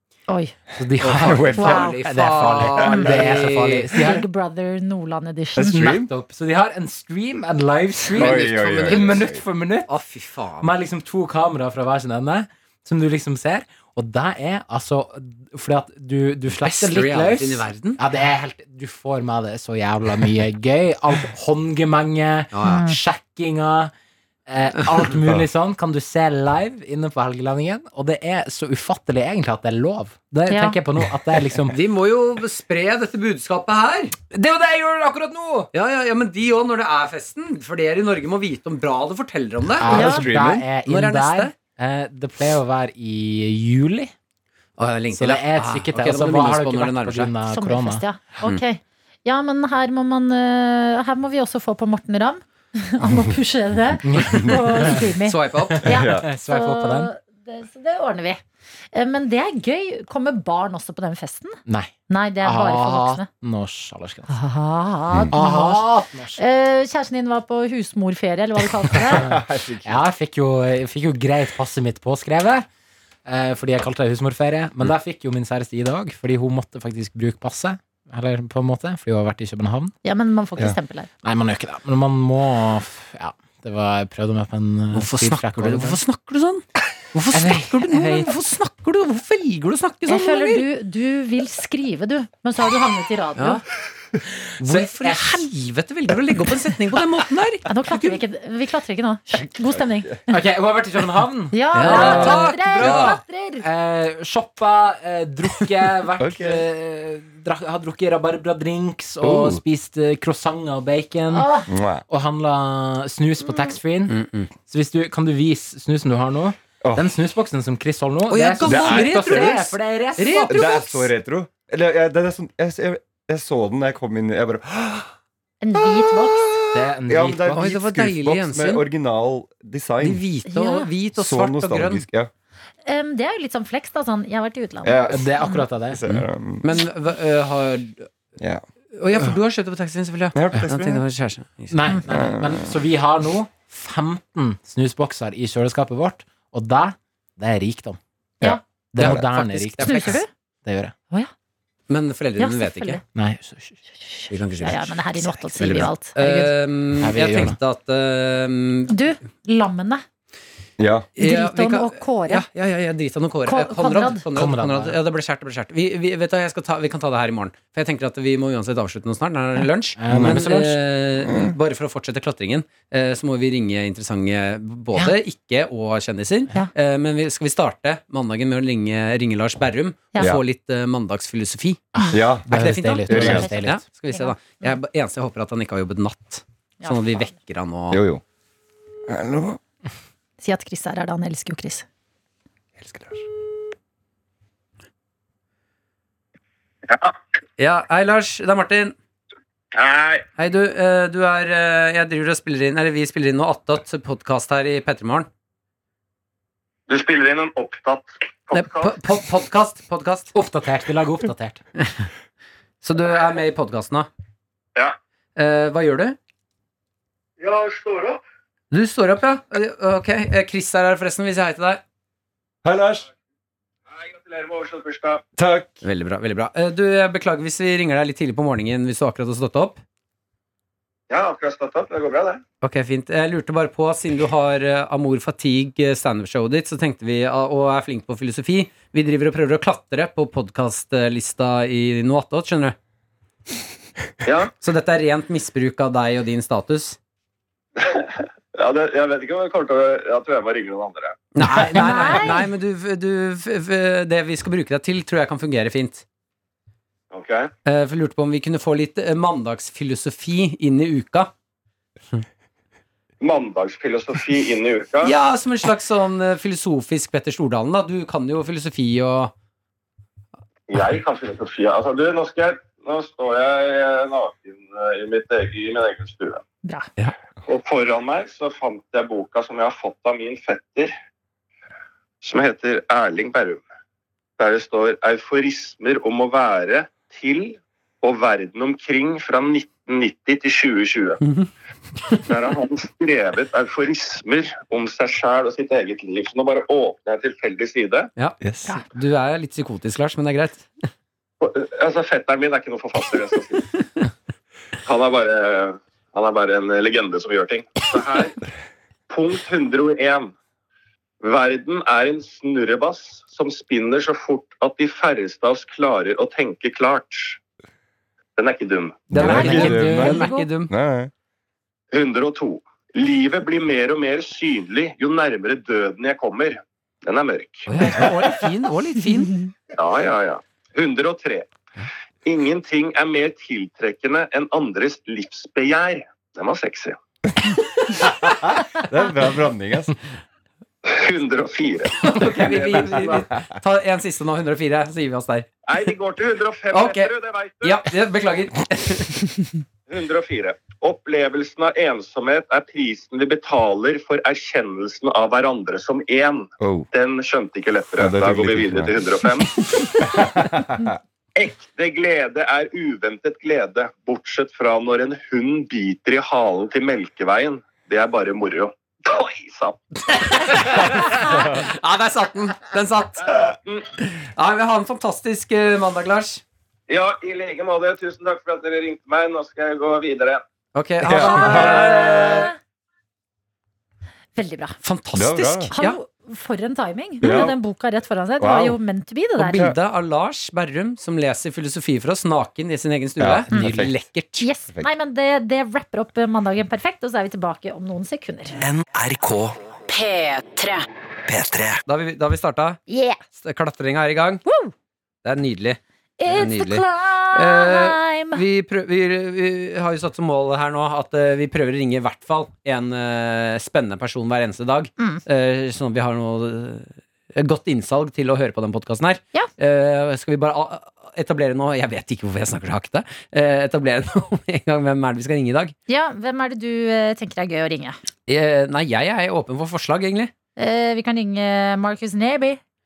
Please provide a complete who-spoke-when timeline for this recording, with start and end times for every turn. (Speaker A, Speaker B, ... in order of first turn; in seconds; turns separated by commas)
Speaker A: 0.3-0.6, Speaker B: 0.8-4.2, Speaker C: 1.0-4.2, Speaker D: 1.0-2.0, Speaker A: 1.6-2.0, Speaker A: 2.8-3.1, Speaker A: 4.0-5.8, Speaker D: 5.6-6.1, Speaker B: 5.7-9.9, Speaker D: 8.1-9.4, Speaker C: 8.1-9.3, Speaker C: 9.9-10.7, Speaker B: 10.6-23.9, Speaker C: 16.6-18.0, Speaker C: 22.5-22.8, Speaker A: 22.6-23.0, Speaker B: 24.5-31.8, Speaker A: 30.5-30.8, Speaker C: 31.7-34.2, Speaker B: 34.3-35.7, Speaker C: 35.7-41.5, Speaker B: 39.8-44.1, Speaker D: 39.9-40.6, Speaker A: 39.9-40.2, Speaker C: 44.8-47.3, Speaker B: 45.1-48.0, Speaker A: 47.5-58.4, Speaker B: 54.0-55.0, Speaker C: 55.3-55.9, Speaker B: 55.7-57.1, Speaker D: 55.9-56.3, Speaker A: 58.9-63.3, Speaker B: 61.7-64.3, Speaker A: 64.3-69.2, Speaker B: 65.3-66.4, Speaker D: 68.9-70.0, Speaker B: 69.1-72.7, Speaker B: 73.3-79.9, Speaker A: 80.0-81.1, Speaker B: 81.2-86.0, Speaker C: 84.9-90.7, Speaker B: 87.3-88.3, Speaker A: 90.1-93.6, Speaker C: 93.4-93.6, Speaker B: 94.4-95.5, Speaker C: 94.6-98.2, Speaker A: 97.7-100.3, Speaker B: 100.3-103.0, Speaker A: 101.5-103.7, Speaker C: 101.7-103.2, Speaker D: 102.8-103.1, Speaker B: 103.6-111.5, Speaker D: 106.2-106.6, Speaker D: 109.2-109.6, Speaker A: 111.3-111.7, Speaker D: 111.7-112.0, Speaker B: 112.1-121.0, Speaker C: 114.1-114.5, Speaker D: 116.8-117.1, Speaker C: 118.3-120.8, Speaker D: 118.6-119.6, Speaker D: 120.5-125.1, Speaker A: 125.6-126.6, Speaker D: 126.6-130.2, Speaker B: 126.7-127.6, Speaker C: 127.5-128.8, Speaker C: 130.0-132.0, Speaker A: 130.5-130.9, Speaker D: 131.2-132.3, Speaker A: 132.8-135.6, Speaker D: 134.8-136.7, Speaker B: 135.1-136.0, Speaker C: 136.1-138.1, Speaker D: 138.4-138.6, Speaker C: 138.9-141.8, Speaker D: 140.3-141.0, Speaker B: 141.7-148.0, Speaker D: 142.1-142.8, Speaker D: 148.4-149.2, Speaker B: 148.9-150.9, Speaker C: 149.0-150.2, Speaker A: 149.8-150.3, Speaker C: 151.9-153.0, Speaker A: 152.4-153.0, Speaker B: 153.2-153.8, Speaker A: 154.1-156.5, Speaker C: 154.3-158.9, Speaker B: 157.0-157.6, Speaker A: 158.9-160.0, Speaker D: 160.8-161.1, Speaker C: 161.2-181.9, Speaker A: 161.2-162.4, Speaker A: 163.5-164.2, Speaker B: 164.3-165.0, Speaker B: 170.0-170.8, Speaker D: 170.1-170.4, Speaker D: 171.3-171.5, Speaker B: 182.0-183.8, Speaker D: 182.1-183.5, Speaker C: 182.5-188.0, Speaker A: 183.2-184.7, Speaker A: 186.8-187.3, Speaker D: 187.9-188.2, Speaker D: 189.1-189.6, Speaker A: 190.4-191.9, Speaker D: 192.8-193.2, Speaker C: 197.6-198.9, Speaker E: 199.7-200.2, Speaker C: 200.4-205.3, Speaker E: 206.9-209.0, Speaker C: 208.5-210.3, Speaker B: 210.3-211.6, Speaker C: 211.8-212.1, Speaker C: 212.8-214.1, Speaker C: 215.4-216.2, Speaker E: 217.4-218.2, Speaker C: 218.7-221.8, Speaker D: 222.6-223.1, Speaker E: 223.9-225.2, Speaker D: 225.4-225.8, Speaker C: 225.8-229.8, Speaker E: 231.1-232.4, Speaker C: 232.6-242.8, Speaker E: 244.2-244.5, Speaker C: 244.6-247.0, Speaker E: 247.8-251.2, Speaker C: 251.3-256.1, Speaker A: 251.8-252.5, Speaker E: 257.1-257.5, Speaker C: 257.7-261.3, Speaker E: 263.2-265.1, Speaker C: 265.0-269.3, Speaker E: 270.7-276.4, Speaker E: 277.5-280.9, Speaker E: 282.2-283.6, Speaker E: 284.4-291.2, Speaker C: 291.2-291.5, Speaker E: 292.2-298.1, Speaker C: 298.2-300.7, Speaker E: 301.4-303.7, Speaker E: 304.9-308.4, Speaker E: 309.1-310.3, Speaker E: 311.2-317.4, Speaker E: 318.4-319.1, Speaker D: 319.1-321.1, Speaker C: 319.1-320.7, Speaker B: 319.1-320.4, Speaker A: 319.2-320.4, Speaker E: 321.9-327.7, Speaker C: 327.7-329.4, Speaker E: 329.8-331.5, Speaker E: 332.2-337.0, Speaker D: 338.0-340.0, Speaker E: 340.9-343.3, Speaker C: 342.0-345.5, Speaker E: 345.7-347.8, Speaker C: 346.7-349.4, Speaker E: 349.9-359.5, Speaker D: 356.6-356.9, Speaker D: 358.0-359.0, Speaker D: 360.0-360.9, Speaker E: 361.4-370.6, Speaker C: 370.4-373.4, Speaker E: 373.3-373.9, Speaker C: 374.0-376.4, Speaker E: 376.9-380.4, Speaker C: 380.8-382.5, Speaker D: 381.1-382.1, Speaker A: 381.5-382.5, Speaker E: 381.9-382.4, Speaker A: 384.4-384.8, Speaker C: 384.8-386.0, Speaker D: 385.1-385.7, Speaker A: 385.7-389.7, Speaker D: 387.2-387.6, Speaker D: 388.4-388.8, Speaker C: 389.4-394.5, Speaker D: 393.2-394.0, Speaker A: 394.4-398.6, Speaker C: 401.9-402.8, Speaker A: 402.9-403.2, Speaker C: 403.4-404.4, Speaker A: 404.5-404.7, Speaker C: 405.2-425.7, Speaker A: 406.2-408.4, Speaker A: 425.9-428.0, Speaker C: 428.3-430.3, Speaker A: 430.6-432.6